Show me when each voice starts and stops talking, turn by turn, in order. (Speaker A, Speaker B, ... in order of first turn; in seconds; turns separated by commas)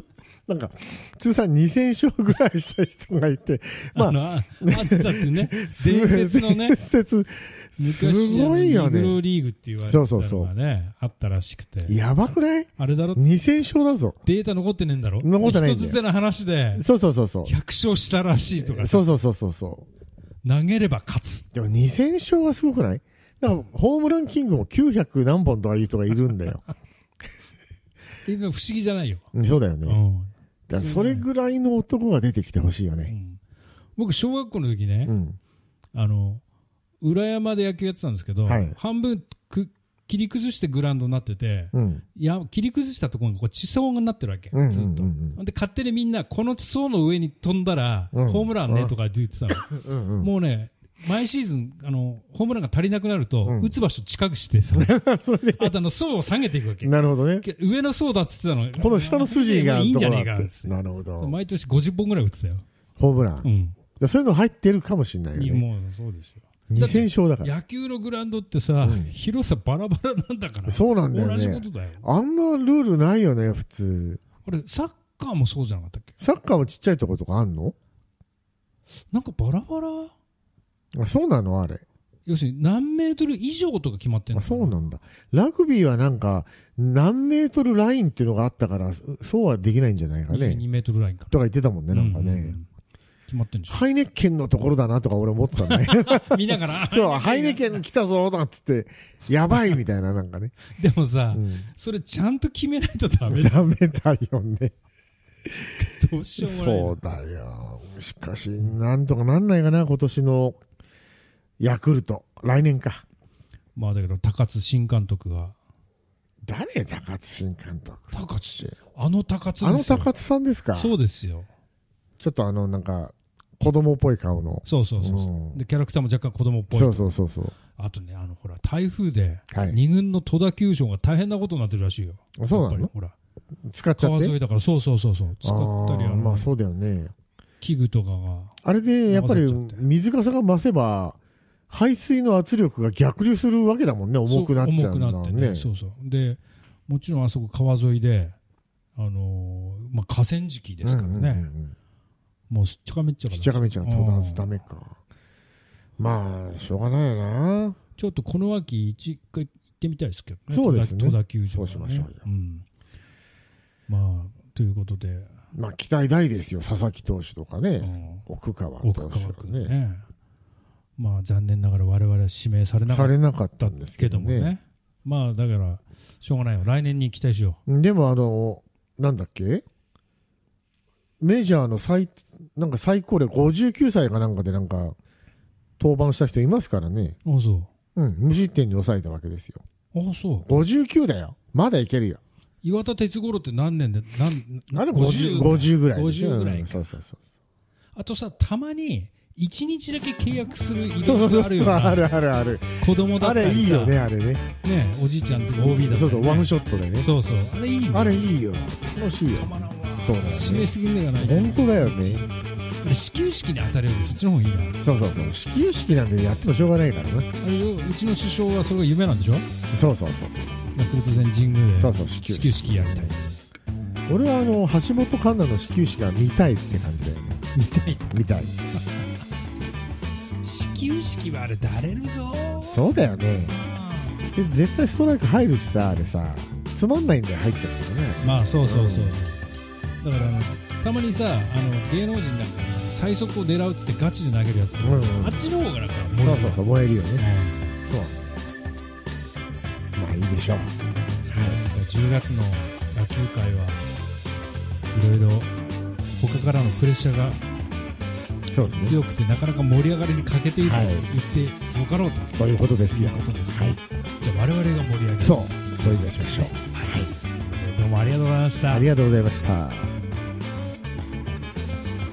Speaker A: 0.5-9.2, Speaker B: 3.9-6.8, Speaker B: 7.8-12.0, Speaker A: 9.9-10.5, Speaker A: 11.9-14.2, Speaker B: 12.8-13.2, Speaker B: 14.2-16.8, Speaker A: 15.2-16.0, Speaker A: 16.8-17.5, Speaker B: 17.4-19.1, Speaker A: 18.6-19.9, Speaker B: 20.4-21.5, Speaker A: 21.5-26.6, Speaker B: 28.2-29.3, Speaker A: 29.3-30.0, Speaker B: 29.9-31.3, Speaker A: 30.7-33.1, Speaker B: 33.1-33.4, Speaker B: 34.0-35.1, Speaker A: 35.0-35.4, Speaker B: 35.9-36.4, Speaker B: 37.0-54.9, Speaker A: 38.5-38.8, Speaker A: 41.7-42.0, Speaker A: 44.5-45.4, Speaker A: 48.1-48.9, Speaker A: 49.6-50.3, Speaker A: 53.4-53.7, Speaker A: 54.7-55.7, Speaker B: 55.6-62.6, Speaker A: 56.8-57.5, Speaker A: 58.8-61.3, Speaker A: 63.0-65.6, Speaker B: 63.4-63.8, Speaker B: 65.3-72.0, Speaker A: 66.7-67.5, Speaker A: 68.8-69.1, Speaker A: 70.7-74.2, Speaker B: 74.4-76.1, Speaker A: 76.2-77.7, Speaker B: 79.1-80.1, Speaker A: 80.9-81.8, Speaker B: 82.2-84.8, Speaker A: 84.3-90.6, Speaker B: 90.3-91.3, Speaker A: 91.3-92.5, Speaker B: 91.9-92.7, Speaker B: 93.3-93.8, Speaker A: 93.7-100.5, Speaker B: 95.6-97.8, Speaker B: 100.7-103.6, Speaker A: 101.3-101.7, Speaker A: 103.3-104.7, Speaker B: 105.8-107.0, Speaker A: 106.4-110.6, Speaker A: 111.6-113.0, Speaker B: 113.8-115.5, Speaker A: 116.4-118.7, Speaker B: 118.1-120.1, Speaker A: 119.6-120.9, Speaker B: 120.7-121.5, Speaker A: 122.2-125.6, Speaker B: 124.6-127.1, Speaker A: 126.7-127.5, Speaker B: 127.7-133.2, Speaker A: 129.5-129.8, Speaker A: 132.4-132.9, Speaker A: 133.7-134.3, Speaker B: 134.0-136.5, Speaker A: 135.4-137.1, Speaker B: 137.6-139.8, Speaker A: 138.6-141.2, Speaker A: 141.7-145.7, Speaker B: 144.3-148.3, Speaker B: 148.9-151.5, Speaker A: 150.8-151.7, Speaker B: 152.5-154.4, Speaker A: 153.3-155.0, Speaker A: 156.0-157.8, Speaker B: 158.0-162.7, Speaker A: 160.5-162.2, Speaker B: 163.9-165.3, Speaker A: 165.5-169.7, Speaker B: 167.8-168.2, Speaker B: 168.8-170.1, Speaker B: 171.0-177.6, Speaker A: 172.9-174.5, Speaker A: 177.7-179.6, Speaker A: 181.2-184.9, Speaker A: 185.8-187.2, Speaker B: 187.2-187.7, Speaker A: 187.9-189.6, Speaker B: 189.9-190.5, Speaker A: 190.4-192.2, Speaker B: 192.6-196.8, Speaker A: 194.7-197.2, Speaker B: 197.9-202.1, Speaker A: 201.0-204.4, Speaker B: 202.8-204.0, Speaker B: 204.6-208.3, Speaker A: 205.6-207.1, Speaker A: 207.9-212.2, Speaker B: 209.3-212.3, Speaker B: 212.8-214.8, Speaker A: 214.8-217.3, Speaker B: 217.4-219.5, Speaker A: 219.7-220.7, Speaker B: 220.7-223.3, Speaker A: 221.8-223.2, Speaker A: 224.1-227.4, Speaker B: 227.5-228.1, Speaker A: 228.1-228.6, Speaker B: 230.4-232.8, Speaker A: 232.7-233.5, Speaker B: 233.5-234.3, Speaker A: 234.3-239.2, Speaker B: 238.2-239.4, Speaker B: 240.0-246.6, Speaker A: 244.8-245.4, Speaker A: 246.1-247.2, Speaker B: 247.2-247.6, Speaker A: 247.8-248.3, Speaker A: 249.9-250.7, Speaker B: 250.9-253.9, Speaker A: 251.3-251.6, Speaker B: 254.9-255.5, Speaker B: 256.2-257.4, Speaker A: 258.5-259.0, Speaker B: 258.6-268.9, Speaker A: 260.6-261.1, Speaker A: 262.4-263.8, Speaker A: 265.2-267.1, Speaker A: 268.7-269.9